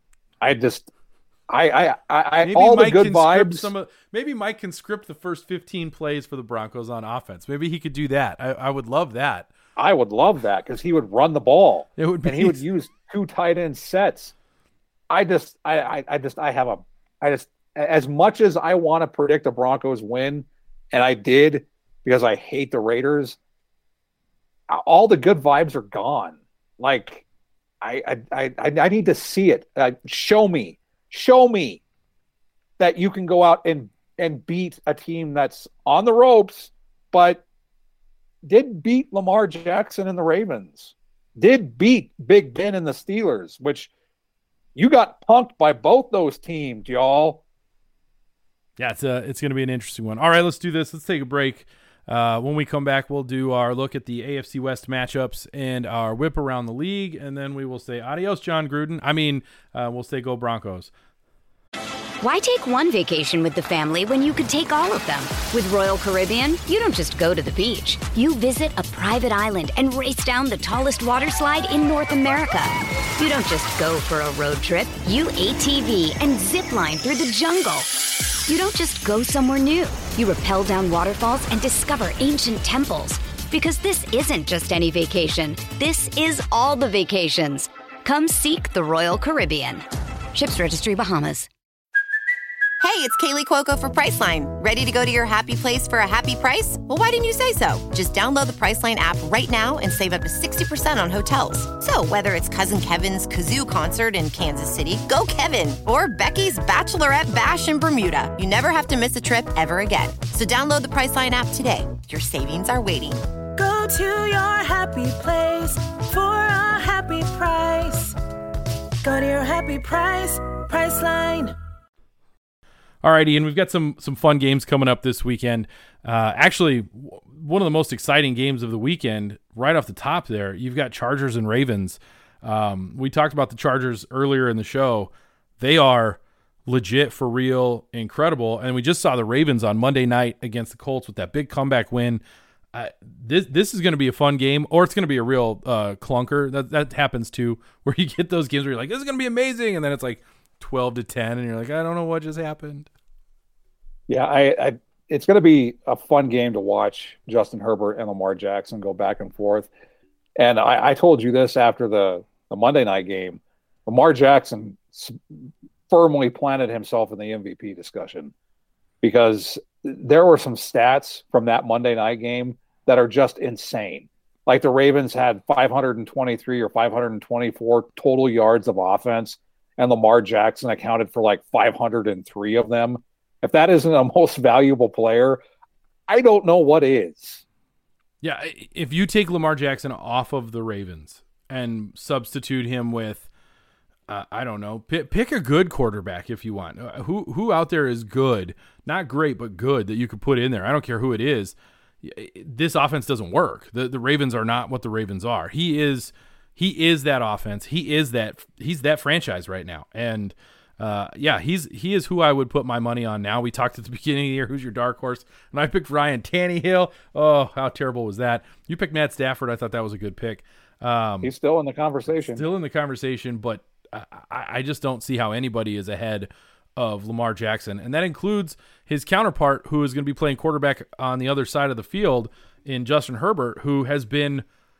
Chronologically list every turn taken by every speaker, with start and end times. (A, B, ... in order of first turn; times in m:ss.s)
0:00.4-0:00.9 A
0:01.5-0:03.7 A
0:02.4-0:09.5 B
0:09.8-0:14.3 A
0:12.0-0:12.6 B
0:15.1-0:23.4 A
0:24.7-0:27.2 A
0:27.8-0:31.8 A
0:32.8-0:37.4 A
0:38.4-0:43.9 A
0:44.8-0:47.4 A
0:48.8-1:00.9 B
1:02.2-1:17.9 C
1:18.5-1:31.5 C
1:32.8-1:53.2 D
1:53.6-1:58.2 E
1:59.0-2:01.6 E
2:03.0-2:22.2 B
2:22.7-2:32.9 B
2:34.1-2:39.7 A
2:40.4-2:45.2 A
2:45.9-2:48.3 A
2:49.0-3:05.4 A
3:06.1-3:07.4 A
3:08.2-3:13.3 B
3:14.1-3:41.3 B
3:41.2-3:42.4 A
3:42.1-3:54.4 B